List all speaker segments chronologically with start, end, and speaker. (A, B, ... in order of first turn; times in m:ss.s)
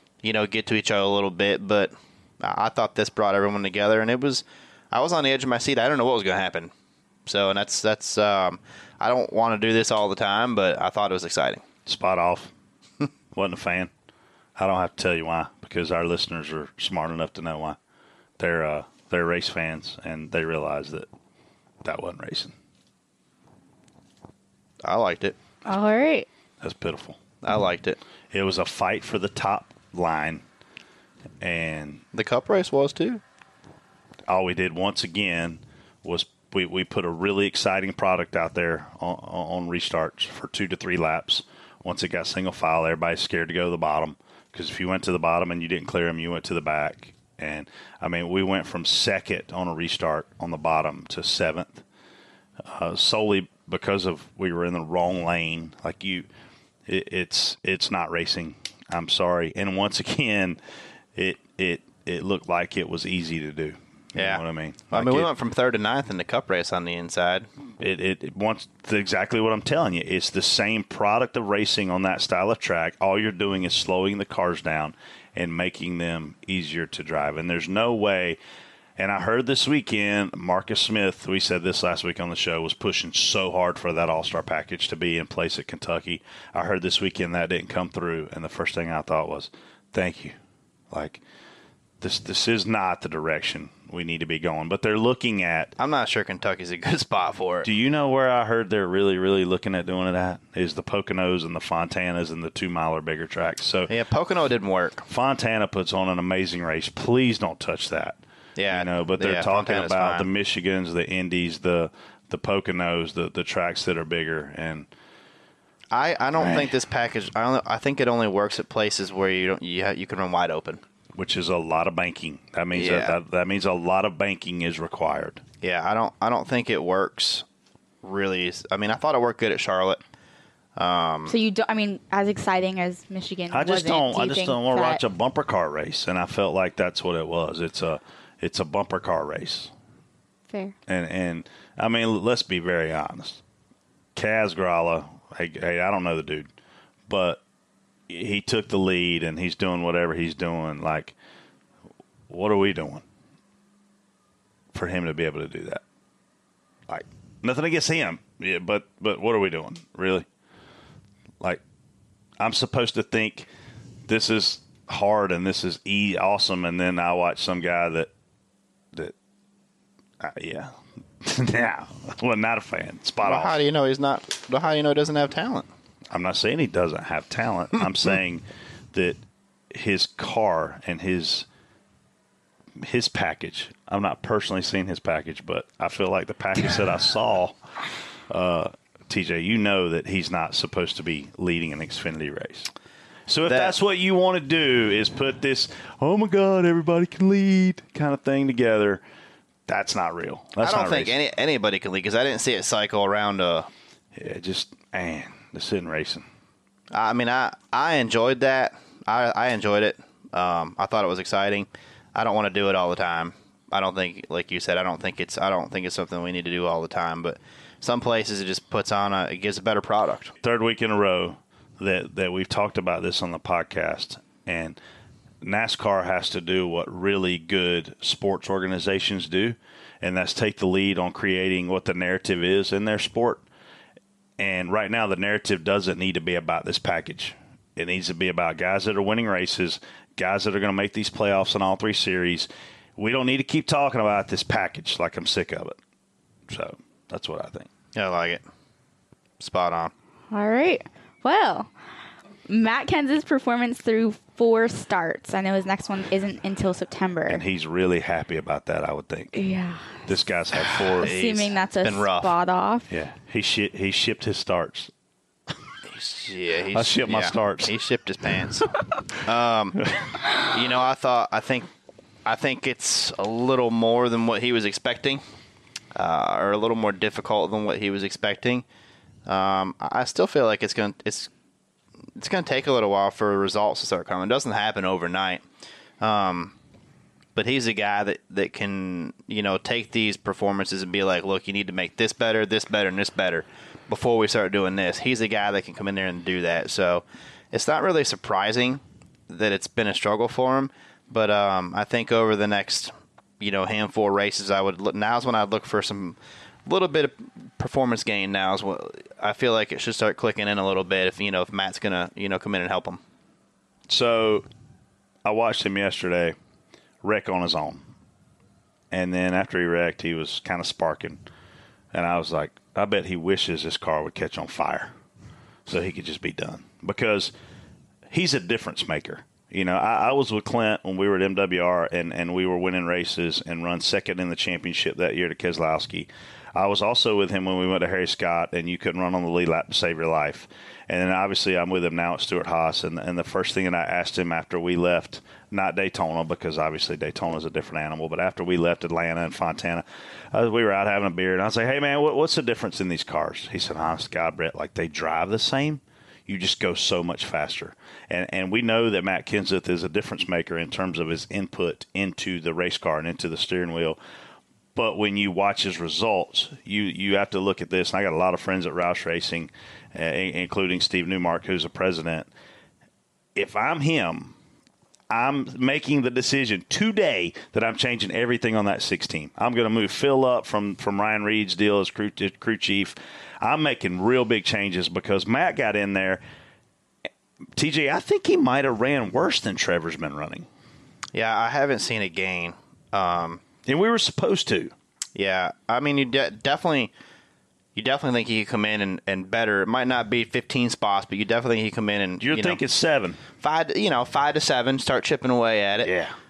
0:00.2-0:06.7 A
0:07.3-0:11.6 A
0:11.9-0:12.5 B
0:13.3-0:13.9 B
0:14.6-0:17.8 B
0:18.4-0:21.1 B
0:21.8-0:22.5 B
0:24.8-0:25.4 A
0:25.7-0:26.3 C
0:26.6-0:27.2 B
0:27.4-0:28.0 A
0:28.3-0:30.4 B
0:31.4-0:32.0 B
0:32.1-0:33.2 A
0:34.3-0:51.8 B
0:52.6-0:56.3 B
0:56.9-1:00.6 B
1:01.2-1:05.3 B
1:04.2-1:07.5 A
1:07.8-1:18.4 B
1:19.0-1:30.4 B
1:30.9-1:31.2 B
1:32.0-1:35.7 B
1:35.8-1:37.7 A
1:37.6-1:43.9 B
1:43.9-1:45.0 A
1:45.1-1:54.9 B
1:48.6-1:50.3 A
1:55.9-2:00.8 A
1:56.4-1:56.7 B
2:01.2-2:05.4 B
2:02.7-2:03.2 A
2:05.6-2:07.4 A
2:08.0-2:10.0 A
2:10.8-2:11.3 A
2:11.3-2:15.0 C
2:13.5-2:19.7 B
2:20.5-2:20.8 C
2:20.9-2:23.4 B
2:24.2-2:26.5 B
2:27.1-2:27.4 B
2:28.1-2:31.2 B
2:32.3-2:33.0 B
2:34.7-2:35.8 B
2:36.9-2:40.3 B
2:42.4-2:43.5 B
2:44.1-2:48.1 B
2:50.2-2:53.6 B
2:53.2-2:55.7 A
2:56.1-2:59.2 B
2:59.7-3:01.5 B
3:02.8-3:07.6 B
3:08.3-3:12.7 B
3:13.3-3:19.0 B
3:13.5-3:13.7 A
3:19.7-3:21.2 B
3:20.6-3:23.7 A
3:24.2-3:26.2 B
3:26.9-3:40.3 A
3:40.4-3:44.8 B
3:45.4-3:53.4 B
3:54.4-4:05.8 B
4:06.5-4:07.7 B
4:08.0-4:08.4 A
4:09.4-4:09.9 A
4:10.3-4:11.7 C
4:12.5-4:17.4 C
4:17.3-4:19.4 B
4:19.3-4:20.1 C
4:20.1-4:21.1 B
4:20.8-4:22.3 A
4:21.0-4:22.9 C
4:22.9-4:24.9 B
4:25.9-4:28.7 A
4:26.7-4:27.8 B
4:29.2-4:29.9 A
4:30.4-4:31.7 A
4:32.2-4:35.2 A
4:36.0-4:38.6 A
4:39.3-4:41.3 A
4:42.2-4:45.4 A
4:46.0-4:46.5 A
4:47.4-5:13.0 A
5:13.9-5:14.5 B
5:15.2-5:16.4 B
5:17.0-5:17.9 B
5:18.9-5:21.2 B
5:21.9-5:24.9 B
5:25.7-5:27.3 B
5:28.1-6:04.0 B
6:04.8-6:12.3 B
6:13.4-6:14.4 B
6:15.1-6:26.2 B
6:27.6-6:30.5 B
6:31.1-6:33.4 A
6:33.7-6:34.7 B
6:35.2-6:36.9 A
6:37.8-6:42.6 A
6:42.2-6:43.2 B
6:43.4-6:45.9 A
6:45.8-6:46.2 B